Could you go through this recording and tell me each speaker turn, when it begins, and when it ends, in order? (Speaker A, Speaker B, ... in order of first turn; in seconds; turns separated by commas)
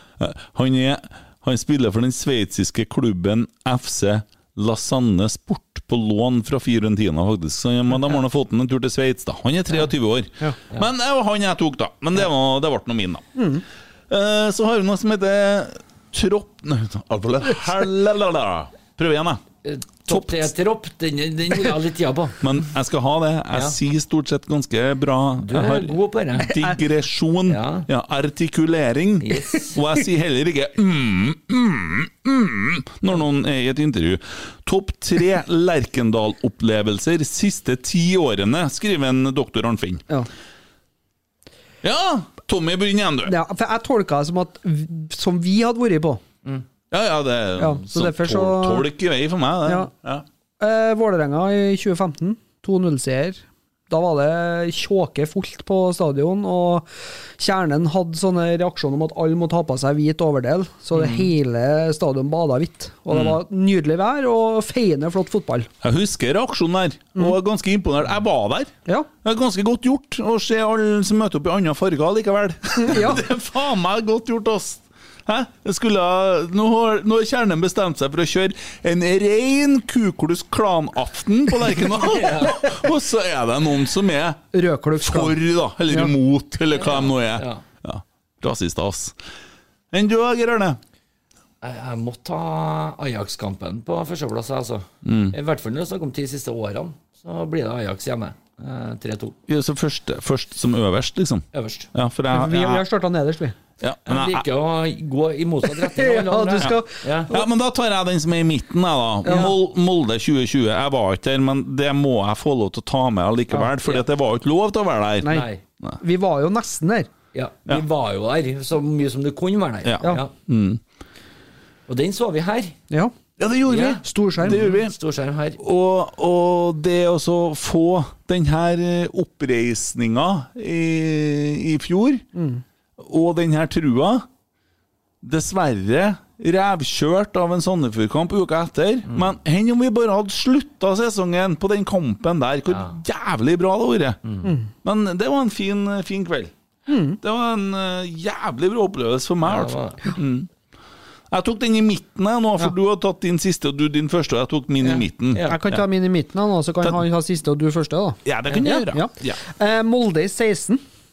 Speaker A: 0.2-13.3, Speaker B: 13.4-13.6, Speaker A: 14.1-19.4, Speaker C: 19.6-22.4, Speaker A: 20.1-20.5, Speaker A: 22.4-40.0, Speaker C: 25.4-26.5, Speaker B: 26.5-26.8, Speaker C: 27.5-27.9, Speaker C: 29.2-29.8, Speaker A: 41.8-43.4, Speaker B: 43.3-46.2, Speaker A: 46.9-50.2, Speaker B: 47.6-48.9, Speaker B: 50.6-56.9, Speaker B: 57.4-65.7, Speaker A: 63.1-63.4, Speaker A: 65.8-68.7, Speaker A: 69.2-84.4, Speaker B: 72.8-73.2, Speaker C: 82.0-82.7, Speaker B: 84.5-85.3, Speaker A: 85.0-89.1, Speaker C: 86.8-87.6, Speaker A: 89.9-90.8, Speaker C: 91.6-99.4, Speaker A: 95.0-95.3, Speaker A: 99.5-102.8, Speaker C: 101.5-101.9, Speaker B: 102.3-103.5, Speaker A: 103.8-104.5, Speaker C: 104.1-107.3, Speaker B: 105.9-107.4, Speaker A: 107.3-116.0, Speaker B: 109.2-109.5, Speaker C: 115.3-115.6, Speaker B: 116.0-117.1, Speaker C: 117.3-120.3, Speaker A: 119.8-120.8, Speaker C: 121.9-122.8, Speaker A: 123.4-124.9, Speaker C: 123.7-125.6, Speaker B: 124.0-124.6, Speaker A: 125.6-132.2, Speaker B: 132.3-132.6, Speaker A: 133.0-134.3, Speaker A: 135.2-144.2, Speaker C: 142.7-143.0, Speaker C: 144.2-144.5, Speaker A: 144.8-146.5, Speaker B: 146.9-147.2, Speaker A: 147.2-150.5, Speaker C: 149.4-150.1, Speaker A: 151.3-155.8, Speaker C: 154.8-155.6, Speaker B: 155.5-160.8, Speaker A: 158.2-159.4